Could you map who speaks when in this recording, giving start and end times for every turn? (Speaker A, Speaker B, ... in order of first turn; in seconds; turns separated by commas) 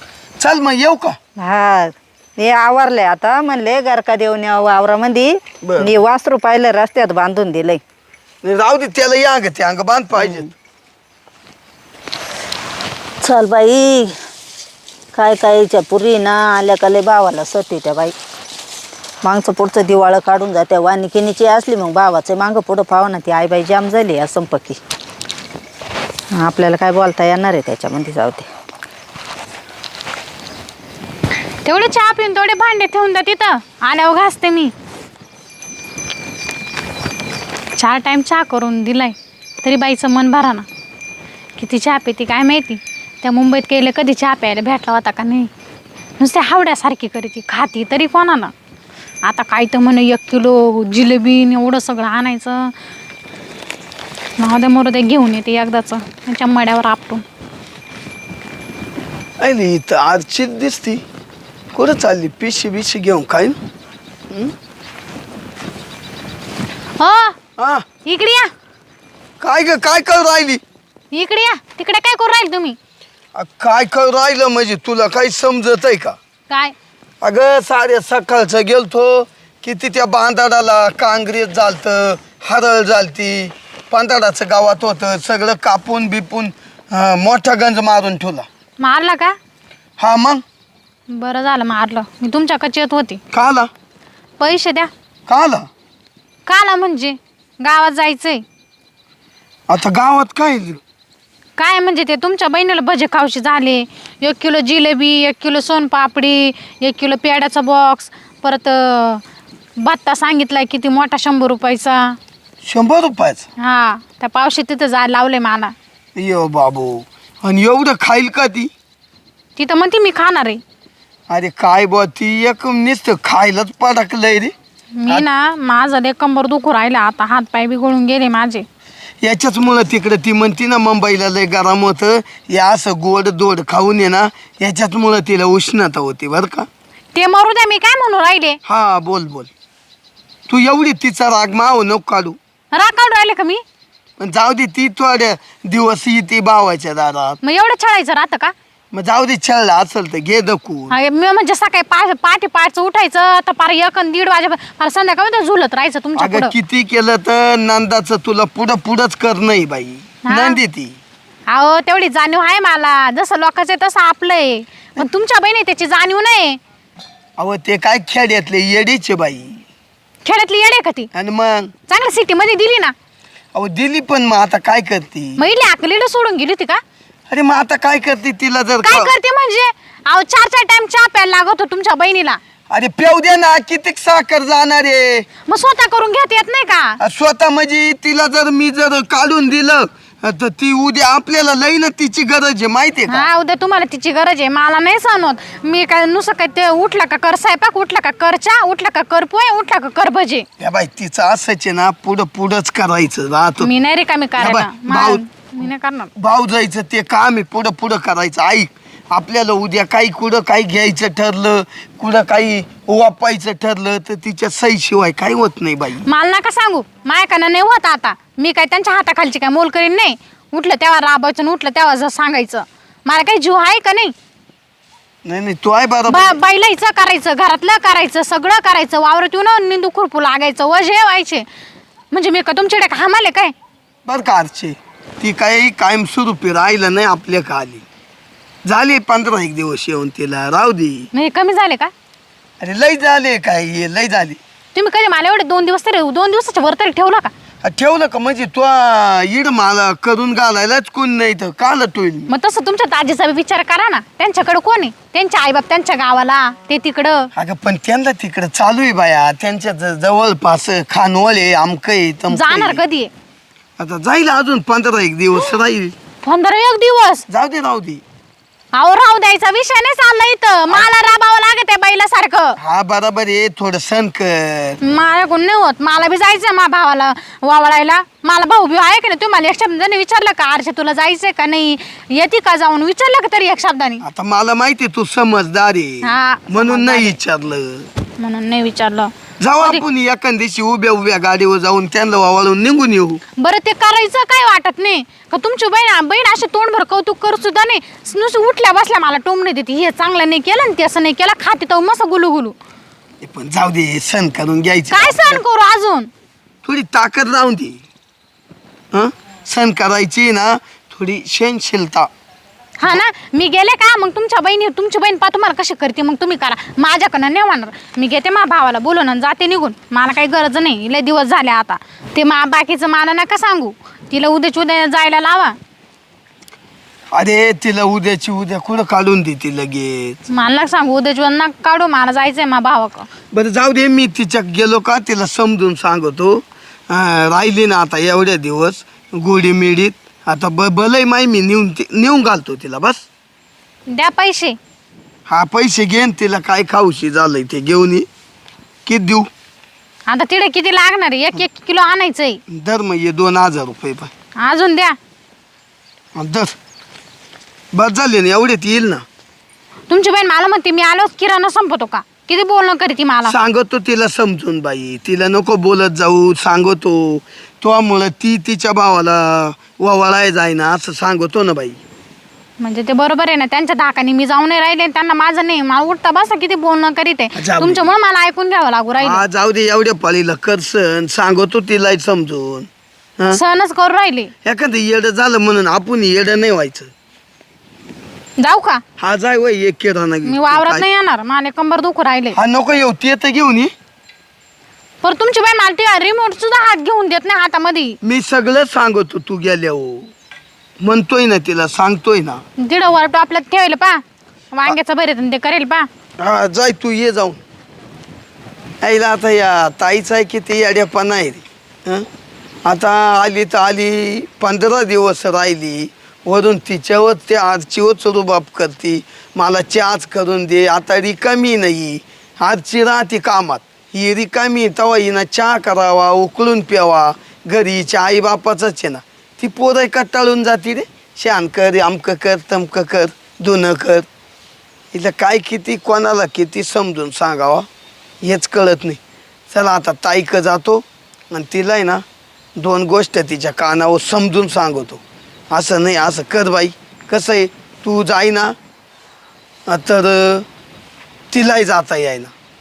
Speaker A: 0.4-1.2, Speaker B: 1.4-7.8, Speaker A: 5.6-5.9, Speaker A: 8.4-10.5, Speaker B: 10.2-10.5, Speaker B: 13.2-14.2, Speaker B: 15.1-18.1, Speaker B: 19.2-24.8, Speaker B: 26.3-28.5, Speaker C: 31.6-34.7, Speaker C: 37.8-40.6, Speaker C: 41.6-45.5, Speaker C: 46.2-48.5, Speaker C: 49.2-52.7, Speaker C: 54.4-57.2, Speaker A: 59.4-61.0, Speaker A: 61.7-63.6, Speaker C: 67.0-67.3, Speaker A: 67.6-67.8, Speaker C: 68.0-68.5, Speaker A: 69.4-70.6, Speaker C: 71.1-72.8, Speaker A: 73.3-76.2, Speaker A: 77.2-88.5, Speaker C: 88.8-89.3, Speaker A: 90.0-90.4, Speaker C: 91.1-93.2, Speaker A: 93.3-93.7, Speaker C: 94.4-94.9, Speaker A: 95.3-95.7, Speaker C: 96.5-98.4, Speaker A: 99.7-100.8, Speaker C: 101.6-109.2, Speaker C: 109.8-112.2, Speaker A: 112.6-113.5, Speaker C: 113.6-115.7, Speaker A: 116.1-118.7, Speaker C: 119.5-120.6, Speaker A: 121.3-124.5, Speaker C: 125.0-128.7, Speaker A: 129.2-136.7, Speaker C: 137.1-138.6, Speaker A: 138.6-139.5, Speaker A: 140.5-142.4, Speaker C: 142.7-143.6, Speaker A: 144.2-147.4, Speaker C: 147.4-148.5, Speaker A: 148.9-150.9, Speaker C: 150.9-156.5, Speaker A: 156.2-161.0, Speaker C: 160.2-160.6, Speaker C: 161.5-166.6, Speaker A: 167.4-169.6, Speaker C: 170.2-171.1, Speaker A: 171.1-171.7, Speaker C: 171.9-172.9, Speaker A: 173.5-175.4, Speaker C: 175.4-176.8, Speaker A: 177.3-179.1, Speaker C: 178.8-182.4, Speaker A: 182.7-185.3, Speaker C: 185.5-187.0, Speaker A: 187.0-193.3, Speaker C: 193.1-200.4, Speaker A: 200.6-203.7, Speaker C: 203.6-206.1, Speaker A: 204.4-205.2, Speaker A: 206.2-216.0, Speaker C: 216.0-224.1, Speaker A: 225.2-226.4, Speaker C: 226.1-231.4, Speaker C: 232.1-233.5, Speaker A: 234.1-237.8, Speaker A: 238.6-241.1, Speaker C: 241.1-241.9, Speaker A: 242.6-244.4, Speaker C: 244.7-247.3, Speaker A: 247.6-252.3, Speaker C: 252.3-257.3, Speaker A: 257.3-262.8, Speaker C: 262.3-263.1, Speaker A: 263.8-265.9, Speaker C: 266.2-267.2, Speaker A: 267.3-268.0, Speaker C: 268.7-272.6, Speaker A: 272.6-274.8, Speaker C: 274.8-284.0, Speaker A: 284.0-287.9, Speaker C: 286.0-287.2, Speaker C: 288.2-289.8, Speaker A: 289.4-293.2, Speaker C: 293.4-302.6, Speaker A: 303.2-305.4, Speaker C: 304.9-306.1, Speaker A: 306.6-307.8, Speaker A: 308.9-312.1, Speaker C: 312.8-325.6, Speaker A: 327.1-330.2, Speaker C: 330.3-333.1, Speaker A: 333.3-343.0, Speaker C: 343.9-344.6, Speaker A: 345.3-348.1, Speaker A: 348.9-349.3, Speaker C: 350.1-352.4, Speaker A: 352.5-354.1, Speaker C: 354.4-355.0, Speaker A: 356.1-356.6, Speaker A: 357.7-359.0, Speaker C: 359.9-363.4, Speaker A: 363.3-371.8, Speaker C: 372.6-379.2, Speaker A: 377.3-377.9, Speaker A: 379.0-383.4, Speaker C: 383.3-384.3, Speaker A: 384.4-386.9, Speaker C: 388.4-388.8, Speaker A: 389.0-390.8, Speaker C: 390.2-392.4, Speaker A: 392.3-393.7, Speaker C: 395.0-398.0, Speaker A: 398.0-400.1, Speaker A: 400.8-402.4, Speaker C: 402.6-405.9, Speaker A: 406.2-407.4, Speaker A: 408.8-412.1, Speaker A: 412.6-434.1, Speaker A: 434.9-437.7, Speaker A: 438.2-439.0, Speaker A: 439.5-442.0, Speaker A: 442.6-448.6, Speaker A: 449.7-450.4, Speaker A: 451.3-452.3